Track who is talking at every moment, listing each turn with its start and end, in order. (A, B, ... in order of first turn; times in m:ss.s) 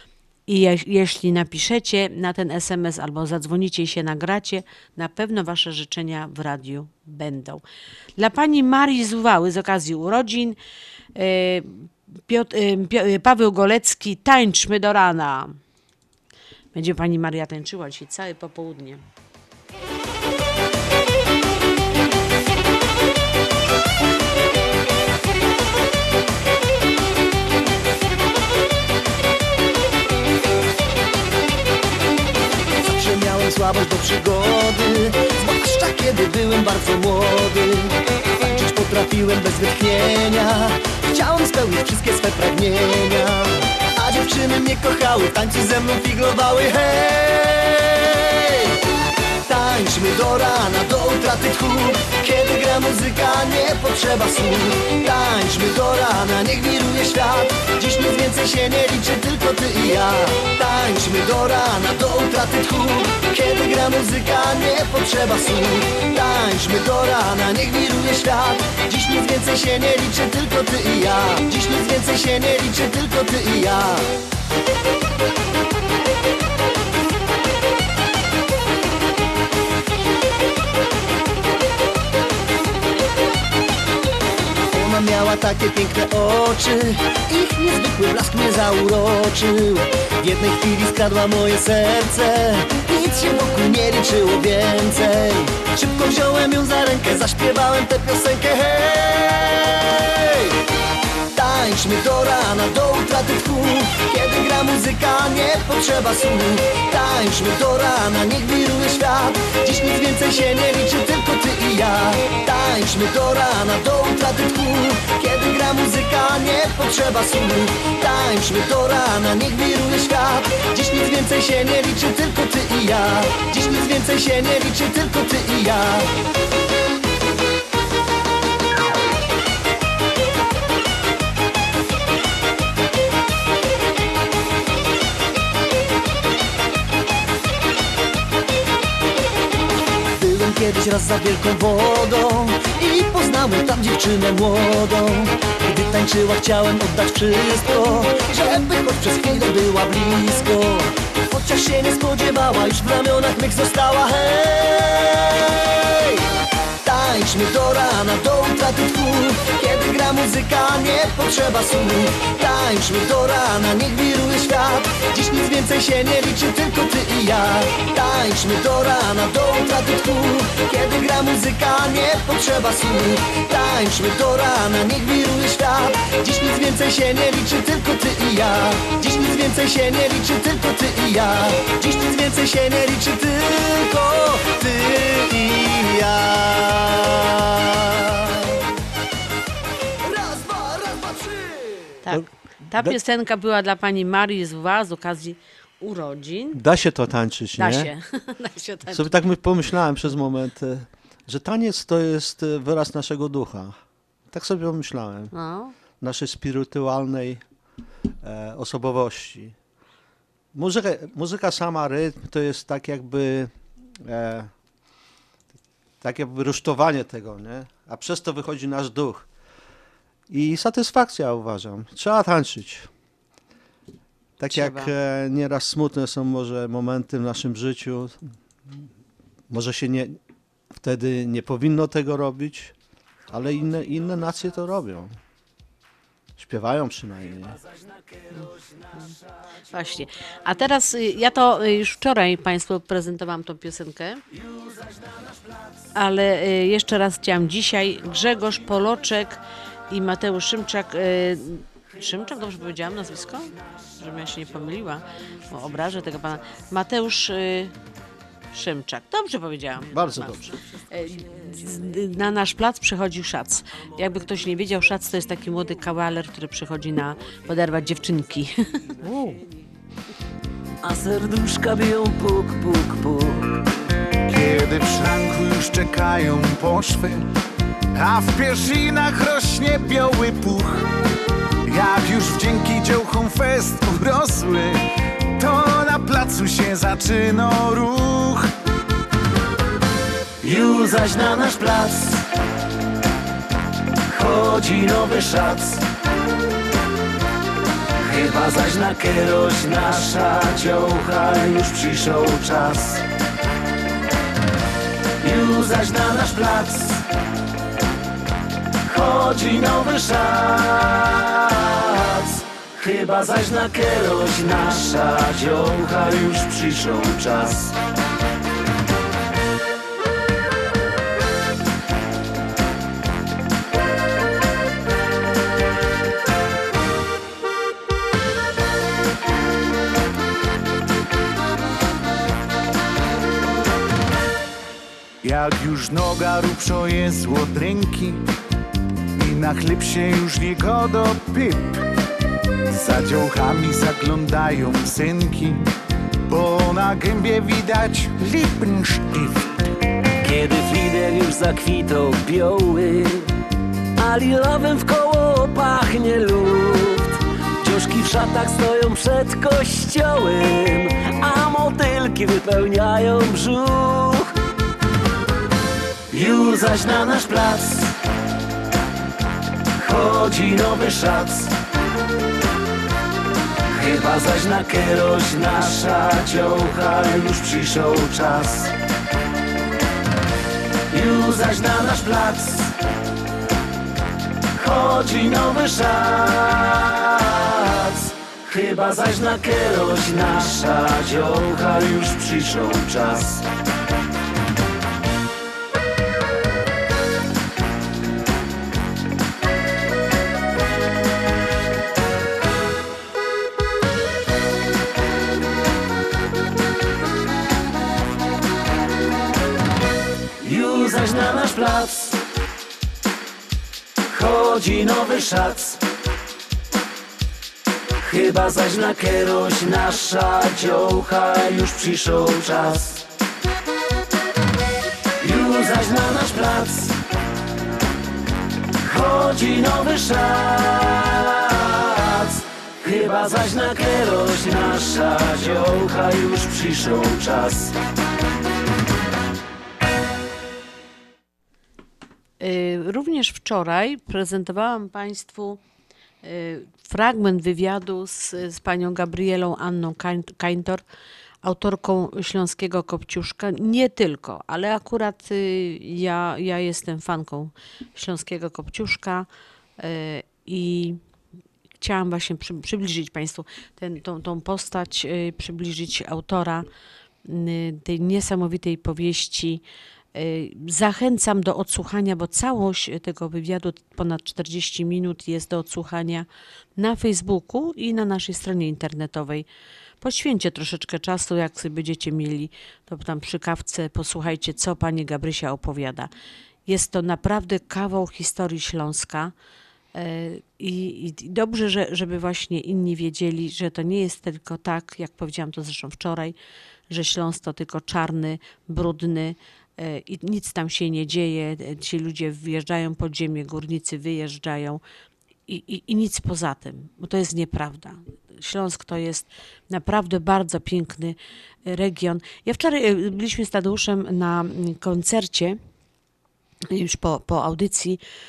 0:00.5-0:07.6 A
0:08.2-0:10.6 A
0:11.2-0:15.6 A
0:16.7-0:19.0 A
0:32.8-0:48.6 B
0:49.5-1:14.1 B
1:24.7-1:40.5 B
1:41.3-2:06.1 B
2:20.2-2:36.2 B
2:36.8-3:08.2 B
3:10.1-3:11.2 B
3:12.0-3:16.6 A
3:12.1-3:13.0 C
3:16.5-3:17.9 C
3:17.6-3:19.1 A
3:18.9-3:23.8 C
3:24.3-3:25.3 C
3:25.3-3:25.7 A
3:26.0-3:27.4 C
3:28.2-3:29.6 C
3:30.5-3:33.5 C
3:34.0-3:34.5 C
3:36.0-3:39.3 C
3:40.3-3:42.9 C
3:44.4-3:48.8 C
3:44.5-3:44.9 A
3:49.5-3:50.2 C
3:50.7-3:52.7 C
3:53.3-3:55.1 C
3:56.4-3:57.6 C
3:59.7-4:04.2 A
4:06.0-4:17.7 A
4:18.5-4:20.4 A
4:19.9-4:20.5 C
4:20.9-4:28.6 A
4:29.0-4:29.4 C
4:30.8-4:33.5 D
4:34.3-4:37.2 E
4:37.9-4:40.9 E
4:41.6-4:44.9 E
4:45.4-4:48.5 E
4:50.4-4:52.2 D
4:54.1-4:55.8 D
4:58.0-5:03.0 D
5:05.2-5:07.0 D
5:08.9-5:17.8 D
5:35.2-5:38.2 E
5:39.2-5:41.8 E
5:42.7-5:45.6 E
5:46.3-5:49.5 E
5:50.2-5:53.3 D
5:54.0-6:04.3 D
6:06.1-6:07.9 D
6:09.8-6:11.5 D
6:13.7-6:18.7 D
6:20.9-6:22.7 D
6:24.6-6:33.4 D
6:50.4-6:52.2 D
6:54.1-6:55.8 D
6:58.0-7:03.0 D
7:05.2-7:07.0 D
7:08.8-7:17.7 D
7:22.4-7:25.6 A
7:26.2-7:30.8 A
7:31.4-7:39.3 A
7:39.8-7:41.0 A
7:41.8-7:46.7 A
7:47.3-7:49.6 A
7:50.2-7:56.3 A
7:56.8-7:59.4 A
8:00.0-8:06.1 A
8:06.7-8:09.3 A
8:10.0-8:16.4 A
8:16.9-8:24.8 A
8:25.5-8:35.6 A
8:36.7-8:38.0 A